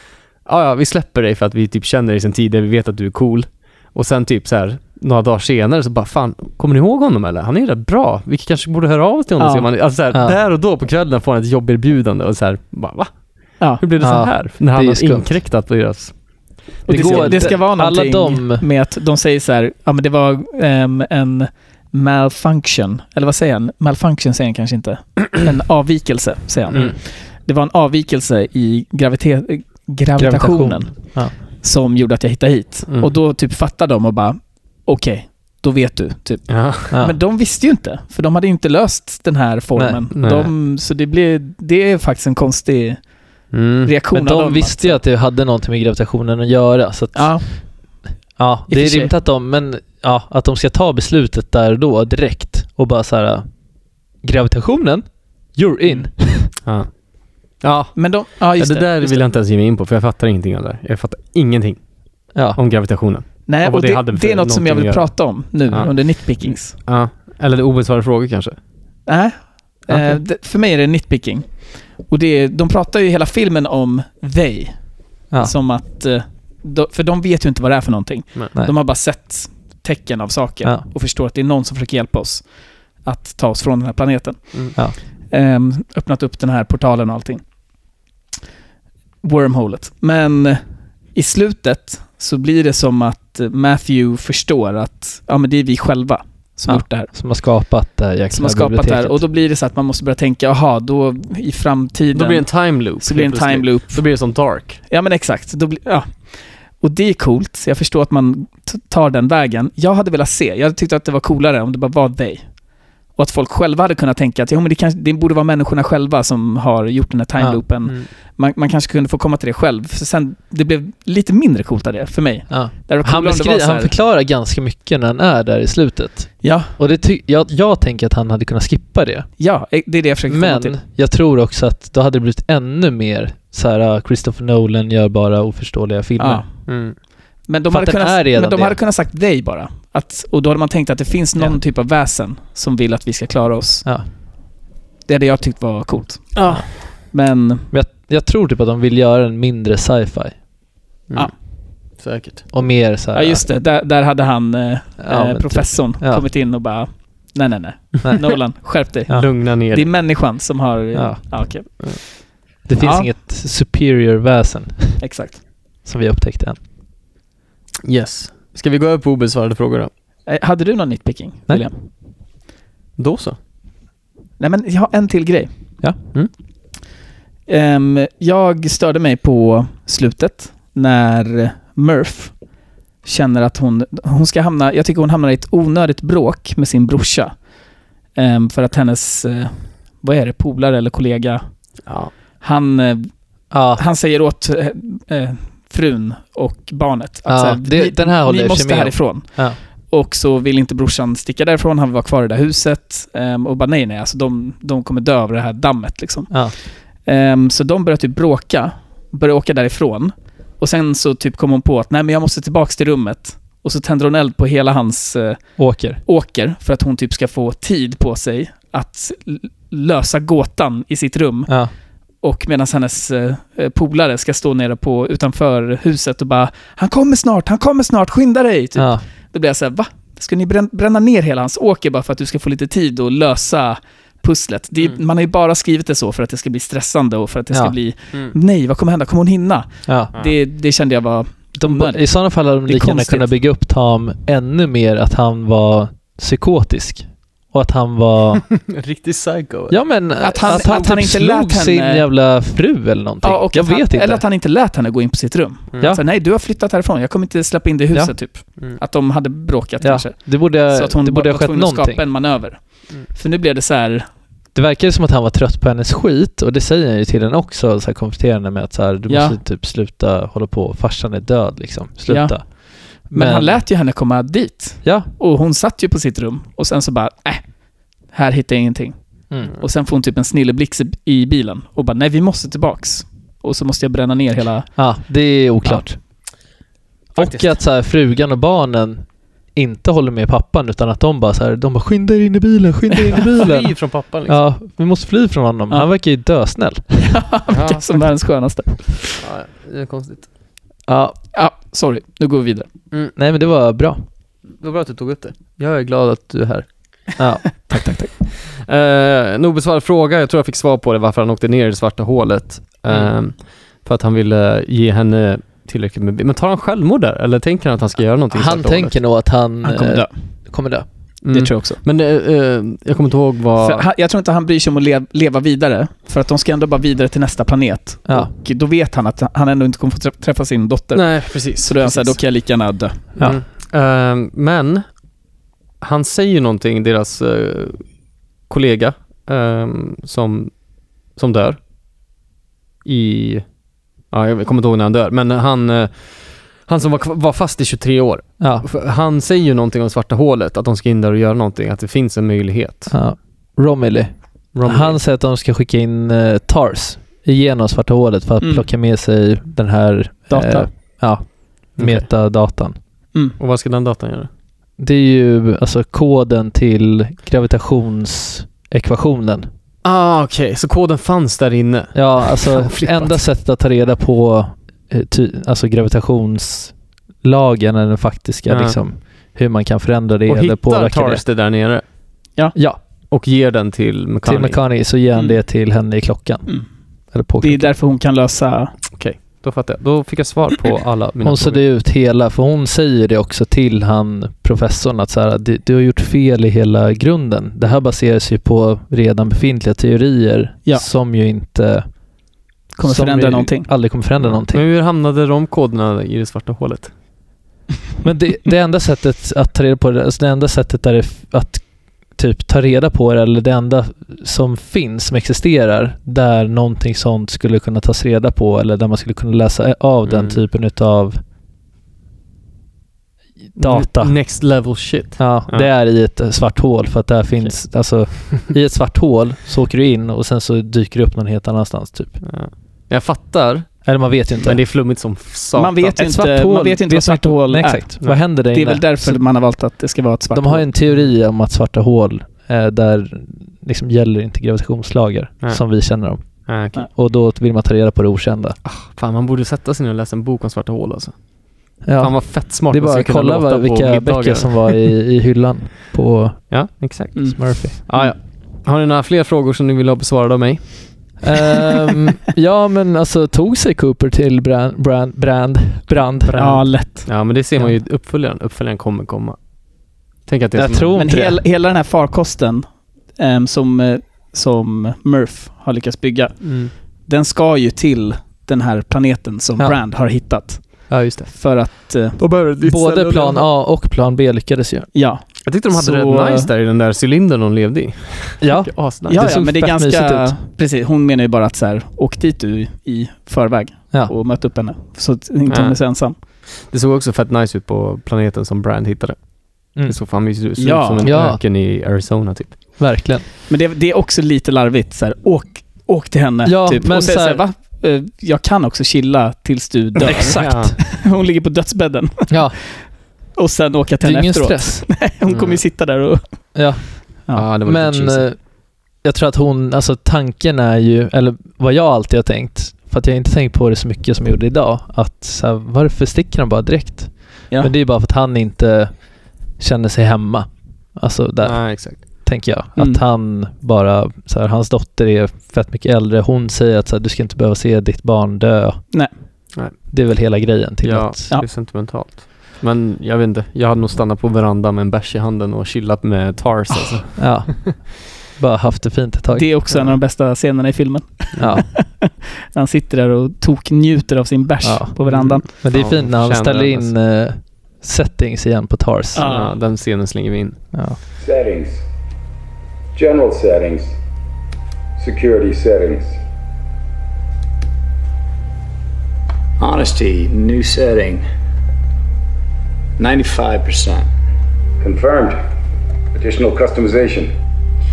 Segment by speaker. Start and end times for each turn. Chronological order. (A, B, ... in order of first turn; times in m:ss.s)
0:00.4-0:17.6 A
0:09.4-0:09.7 B
0:10.1-0:10.4 C
0:14.0-0:15.4 C
0:16.9-0:18.6 C
0:16.9-0:45.0 B
0:26.7-0:27.0 A
0:30.2-0:31.3 C
0:36.5-0:36.9 A
0:36.9-0:37.2 C
0:39.8-0:40.0 C
0:40.1-0:40.5 A
0:43.5-0:43.9 A
0:44.1-0:47.6 C
0:47.1-0:48.0 B
0:48.4-0:53.5 C
0:48.7-0:49.1 B
0:54.2-0:56.5 C
0:56.6-1:01.8 A
0:58.0-0:59.3 B
1:02.4-1:08.6 A
1:03.5-1:06.8 B
1:09.1-1:27.4 B
1:09.9-1:10.2 C
1:29.2-1:30.6 B
1:31.1-1:37.1 B
1:36.7-1:39.2 C
1:38.3-1:44.0 B
1:42.1-1:44.8 A
1:44.9-2:03.9 B
2:02.5-2:09.3 C
2:06.4-2:06.7 B
2:09.4-2:10.8 B
2:10.3-2:16.4 C
2:16.2-2:16.6 B
2:16.7-2:17.0 A
2:17.5-2:23.9 B
2:17.7-2:18.8 C
2:25.0-2:27.7 B
2:26.3-2:26.6 A
2:27.7-2:30.4 C
2:31.1-2:32.4 A
2:32.5-2:33.4 C
2:33.1-2:43.1 B
2:35.0-2:36.2 C
2:39.1-2:39.9 A
2:40.9-2:41.7 C
2:42.6-2:45.1 C
2:45.0-2:45.4 B
2:45.8-2:46.6 C
2:47.8-2:49.9 A
2:50.3-2:51.8 B
2:53.0-2:53.4 A
2:54.4-2:55.5 B
2:57.5-3:02.4 B
3:03.0-3:07.4 B
3:08.1-3:11.8 B
3:11.8-3:12.1 A
3:12.4-3:41.7 B
3:13.5-3:13.8 C
3:17.3-3:19.6 C
3:26.3-3:26.5 C
3:35.6-3:36.0 C
3:42.2-4:03.3 B
3:48.8-3:49.0 C
3:59.9-4:00.1 C
4:01.6-4:08.6 C
4:08.5-4:09.8 A
4:09.7-4:14.2 C
4:10.2-4:12.0 B
4:13.2-4:24.1 B
4:19.8-4:22.0 C
4:24.5-4:33.6 C
4:29.1-4:29.4 B
4:32.1-4:37.5 B
4:34.8-4:35.1 C
4:38.0-4:45.0 B
4:44.8-4:46.1 C
4:47.1-4:47.6 A
4:47.2-4:57.2 C
4:53.3-4:54.4 A
4:57.1-4:59.2 B
4:57.5-4:57.8 A
4:59.2-5:00.3 A
5:00.9-5:01.2 C
5:01.3-5:02.7 B
5:03.2-5:04.0 C
5:04.6-5:06.6 A
5:07.2-5:07.6 C
5:07.6-5:08.1 B
5:08.5-5:18.9 A
5:18.3-5:20.8 C
5:19.6-5:20.6 B
5:21.2-5:23.8 A
5:21.3-5:21.8 B
5:23.6-5:33.2 B
5:30.9-5:34.9 A
5:35.8-5:37.9 A
5:38.5-5:41.6 A
5:42.8-5:52.9 A
5:48.4-5:48.7 C
5:52.9-6:02.8 C
5:54.5-5:55.0 A
5:58.4-5:58.6 B
6:00.3-6:01.0 B
6:01.8-6:02.1 A
6:03.4-6:04.3 A
6:04.8-6:09.5 C
6:09.8-6:13.2 A
6:11.9-6:21.2 C
6:18.5-6:18.8 A
6:20.3-6:21.8 A
6:22.5-6:22.8 C
6:23.1-6:24.6 A
6:24.2-6:27.7 C
6:25.1-6:25.4 B
6:27.4-6:28.7 B
6:28.9-6:31.6 A
6:31.2-6:42.0 C
6:42.7-6:43.7 B
6:42.8-6:44.6 C
6:44.2-6:46.9 A
6:48.0-7:01.2 C
7:00.0-7:00.4 A
7:03.5-7:04.3 C
7:03.6-7:05.7 A
7:05.2-7:12.2 C
7:12.2-7:16.0 A
7:13.8-7:14.6 C
7:15.5-7:20.7 B
7:16.0-7:19.2 C
7:20.3-7:28.6 C
7:25.4-7:26.8 A
7:28.6-7:34.9 A
7:31.8-7:36.8 C
7:36.5-7:41.2 A
7:37.3-7:38.0 C
7:41.2-7:46.6 C
7:46.2-7:51.0 A
7:46.4-7:47.2 B
7:50.5-7:51.4 C
7:50.9-8:02.2 B
7:56.4-7:56.7 A
8:00.9-8:01.4 A
8:02.2-8:03.5 A
8:02.6-8:04.9 C
8:04.9-8:06.5 B
8:05.4-8:09.3 A
8:08.4-8:10.3 C
8:09.1-8:16.1 B
8:15.5-8:22.6 A
8:20.6-8:21.1 B
8:21.0-8:21.4 C
8:22.8-8:23.2 C
8:23.5-8:37.4 B
8:26.4-8:27.4 C
8:30.0-8:30.8 C
8:30.3-8:30.8 A
8:32.3-8:33.0 C
8:34.0-8:34.9 C
8:35.3-8:35.6 A
8:36.5-8:59.0 C
8:37.3-8:38.3 A
8:51.4-8:52.0 A
8:52.8-8:53.0 B
8:59.9-9:01.3 C
9:00.8-9:07.7 A
9:07.2-9:09.5 C
9:09.3-9:15.5 B
9:11.4-9:11.7 C
9:14.6-9:19.2 C
9:15.1-9:17.0 A
9:19.1-9:19.5 B
9:19.2-9:20.6 A
9:20.7-9:21.0 C
9:21.2-9:21.8 D
9:22.9-9:24.0 D
9:25.0-9:26.2 D
9:29.6-9:31.2 E
9:33.0-9:34.1 E
9:34.8-9:35.4 D
9:36.1-9:37.3 D